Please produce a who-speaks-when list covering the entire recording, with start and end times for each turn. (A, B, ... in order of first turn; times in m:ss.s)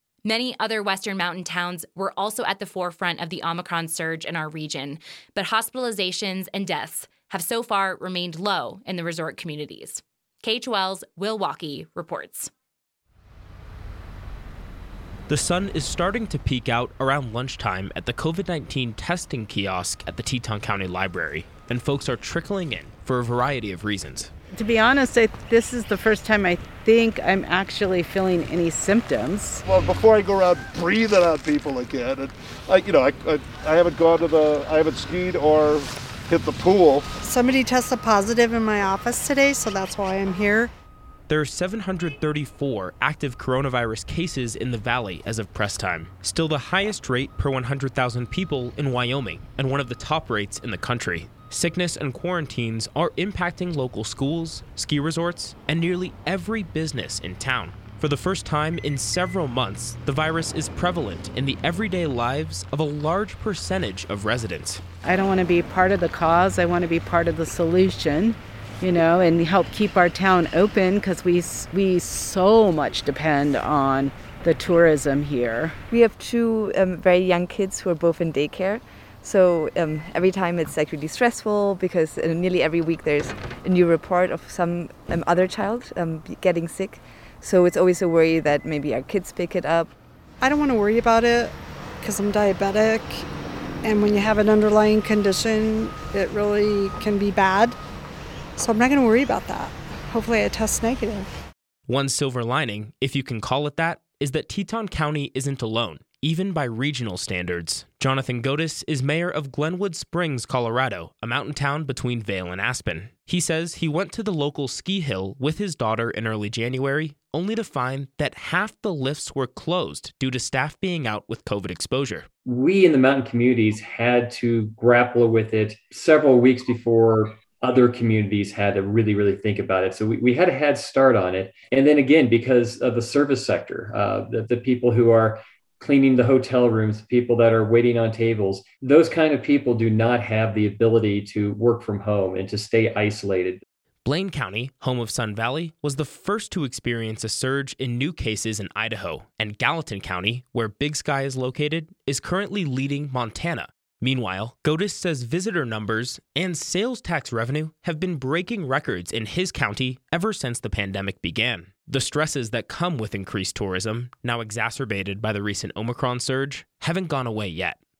0:00.2-0:12.5 A
0:15.3-0:24.3 B
0:24.5-0:29.6 C
0:29.7-0:37.1 D
0:37.2-0:40.7 E
0:41.3-1:04.8 B
1:05.0-1:15.8 C
1:15.9-1:29.9 F
1:30.4-1:33.2 E
1:33.8-1:37.8 E
1:38.6-1:41.3 E
1:41.9-2:02.3 B
2:02.4-2:23.6 G
2:24.0-2:47.8 B